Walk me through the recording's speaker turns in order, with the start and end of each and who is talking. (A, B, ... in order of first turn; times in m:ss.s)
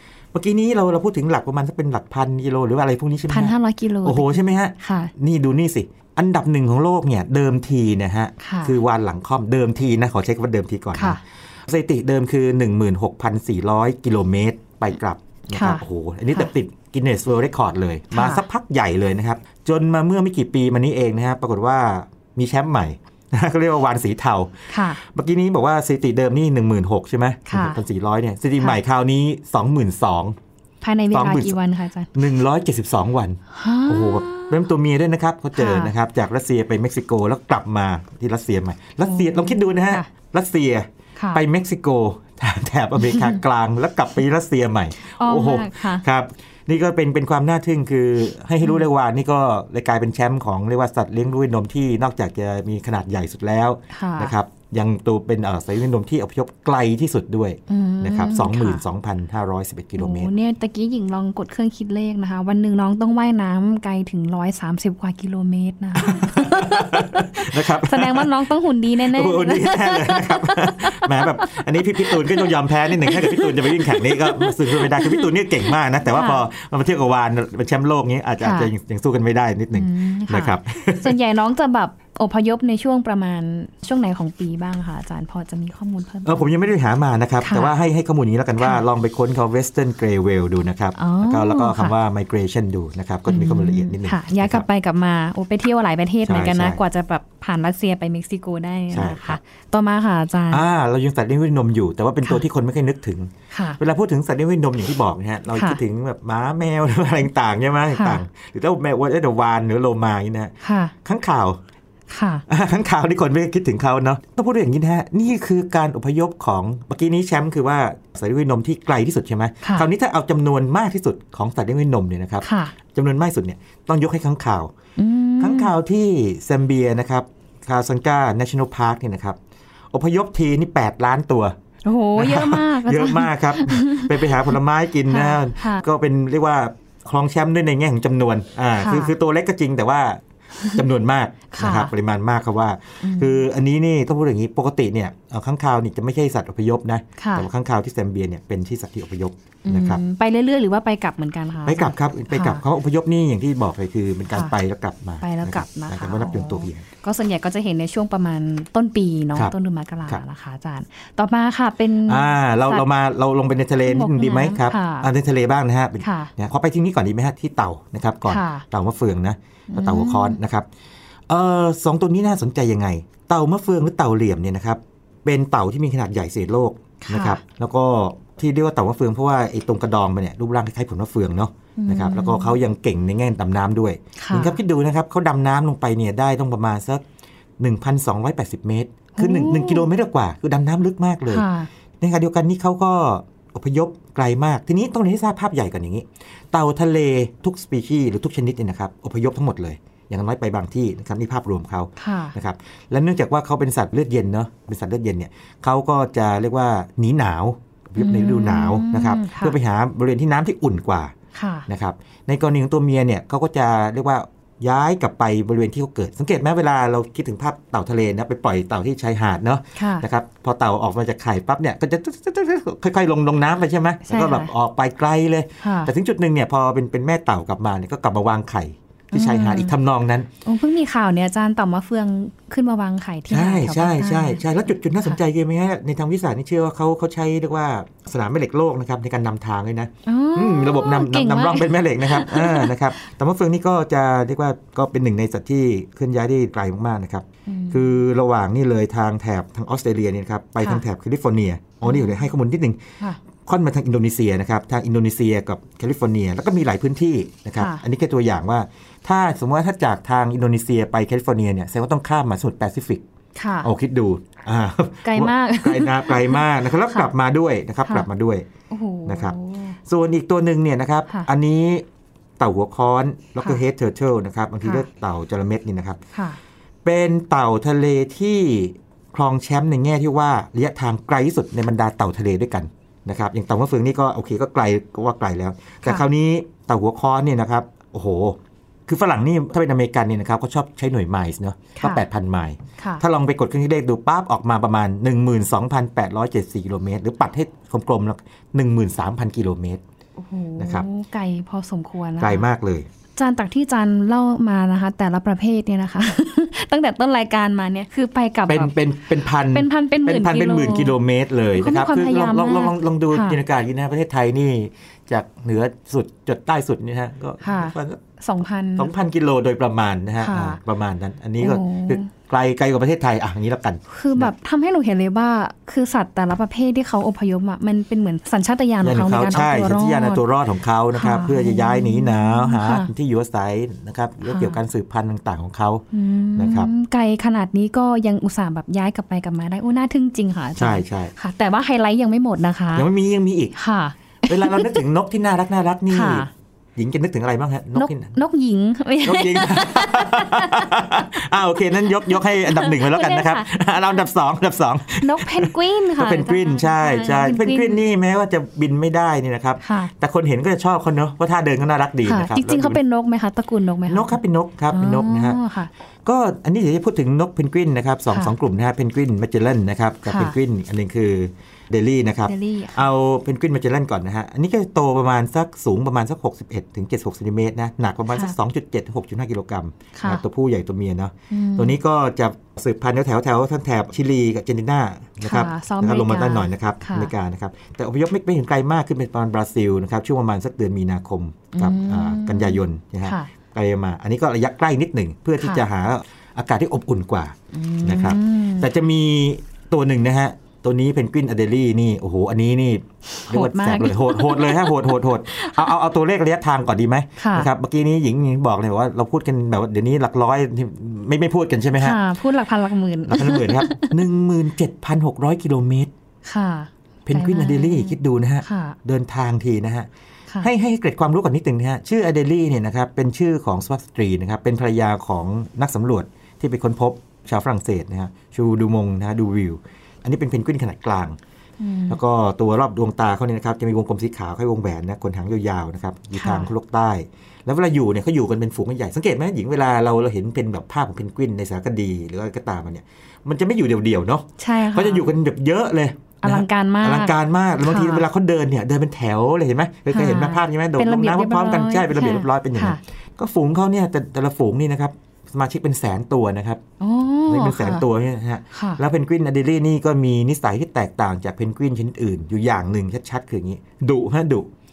0:00.3-0:30.4 A
0:03.3-0:05.1 B
0:08.4-0:08.7 B
0:10.9-0:11.2 B
0:15.5-0:16.5 B
0:18.1-0:18.4 B
0:24.7-0:25.0 B
0:27.5-0:27.8 B
0:30.8-0:32.1 B
0:31.1-0:31.6 A
0:32.1-1:00.3 A
0:33.5-0:34.7 B
0:35.5-0:35.9 B
0:39.0-0:40.1 B
0:41.2-0:41.4 B
0:43.0-0:43.4 B
0:45.0-0:46.0 B
0:53.9-0:54.3 B
0:57.7-0:58.8 B
1:00.0-1:16.4 B
1:06.0-1:08.3 A
1:09.1-1:21.2 A
1:18.4-1:18.7 B
1:19.7-1:26.5 B
1:26.2-1:34.6 A
1:27.4-1:27.7 B
1:31.0-1:31.9 B
1:33.3-1:40.6 B
1:36.2-1:36.8 A
1:38.9-1:39.4 A
1:40.5-1:51.6 A
1:43.5-1:43.8 B
1:45.5-1:45.8 B
1:47.9-1:48.2 B
1:50.6-1:50.9 B
1:52.1-1:52.4 B
1:52.5-2:04.7 A
1:59.6-1:59.9 B
2:02.4-2:02.7 B
2:05.0-2:05.7 B
2:05.4-2:09.4 A
2:09.9-2:11.5 A
2:11.8-2:14.5 B
2:12.2-2:20.2 A
2:15.1-2:15.8 B
2:18.8-2:19.1 B
2:20.7-2:30.0 A
2:21.5-2:21.9 B
2:23.0-2:23.4 B
2:27.2-2:27.4 B
2:29.6-2:32.6 B
2:31.6-2:36.8 A
2:35.2-2:42.8 B
2:42.0-2:50.6 A
2:43.8-2:45.1 B
2:46.0-2:46.3 B
2:48.3-2:48.6 B
2:49.7-2:50.4 B
2:51.3-3:07.0 A
2:57.0-2:57.4 B
3:01.8-3:02.5 B
3:04.2-3:04.6 B
3:07.6-3:11.5 A
3:09.2-3:09.9 B
3:11.3-3:11.7 B
3:12.0-3:31.1 A
3:22.0-3:22.3 B
3:28.0-3:29.6 B
3:31.3-3:31.7 B
3:31.7-3:50.3 A
3:39.8-3:40.0 B
3:44.0-3:44.5 B
3:45.6-3:45.9 B
3:49.1-3:49.7 B
3:50.4-3:54.4 B
3:53.3-4:12.8 A
4:00.0-4:02.7 B
4:07.5-4:08.0 B
4:11.8-4:12.2 B
4:13.4-4:23.0 A
4:17.6-4:17.8 B
4:23.4-4:23.7 B
4:23.6-4:28.4 A
4:25.0-4:27.1 B
4:28.7-4:29.8 B
4:29.0-4:31.8 A
4:32.4-4:36.0 A
4:36.1-4:36.4 B
4:36.8-4:59.8 A
4:51.8-4:52.0 B
5:00.2-5:02.5 B
5:00.6-5:00.9 A
5:02.2-5:02.9 A
5:03.2-5:08.7 B
5:08.5-5:18.0 A
5:09.5-5:11.0 B
5:11.6-5:13.4 B
5:17.4-5:18.9 B
5:18.8-5:24.3 A
5:20.2-5:20.6 B
5:21.4-5:22.1 B
5:23.9-5:30.2 B
5:28.8-5:35.8 A
5:30.9-5:32.9 B
5:34.2-5:34.6 B
5:35.9-5:42.9 B
5:36.4-5:36.7 A
5:40.6-5:41.1 A
5:42.7-5:43.6 A
5:43.6-5:44.8 B
5:44.2-5:48.1 A
5:45.9-5:46.3 B
5:47.7-5:51.0 B
5:49.0-6:02.8 A
5:51.8-5:53.5 B
5:55.0-5:57.8 B
5:59.6-5:59.9 B
6:02.0-6:04.2 B
6:03.9-6:05.4 A
6:04.7-6:05.7 B
6:06.0-6:52.0 A
6:10.0-6:10.4 B
6:12.3-6:12.8 B
6:19.9-6:20.2 B
6:21.3-6:21.8 B
6:25.2-6:27.1 B
6:31.5-6:33.3 B
6:37.5-6:38.7 B
6:43.1-6:45.7 B
6:47.2-6:47.5 B
6:51.8-6:53.9 B
6:53.0-6:55.9 A
6:56.2-6:58.8 B
6:57.0-6:59.9 A
7:00.4-7:11.2 A
7:11.6-7:12.0 B
7:11.9-7:36.6 A
7:16.1-7:16.5 B
7:24.4-7:25.1 B
7:26.2-7:28.0 B
7:29.9-7:32.8 B
7:36.8-7:37.8 B
7:37.3-7:44.5 A
7:38.5-7:38.8 B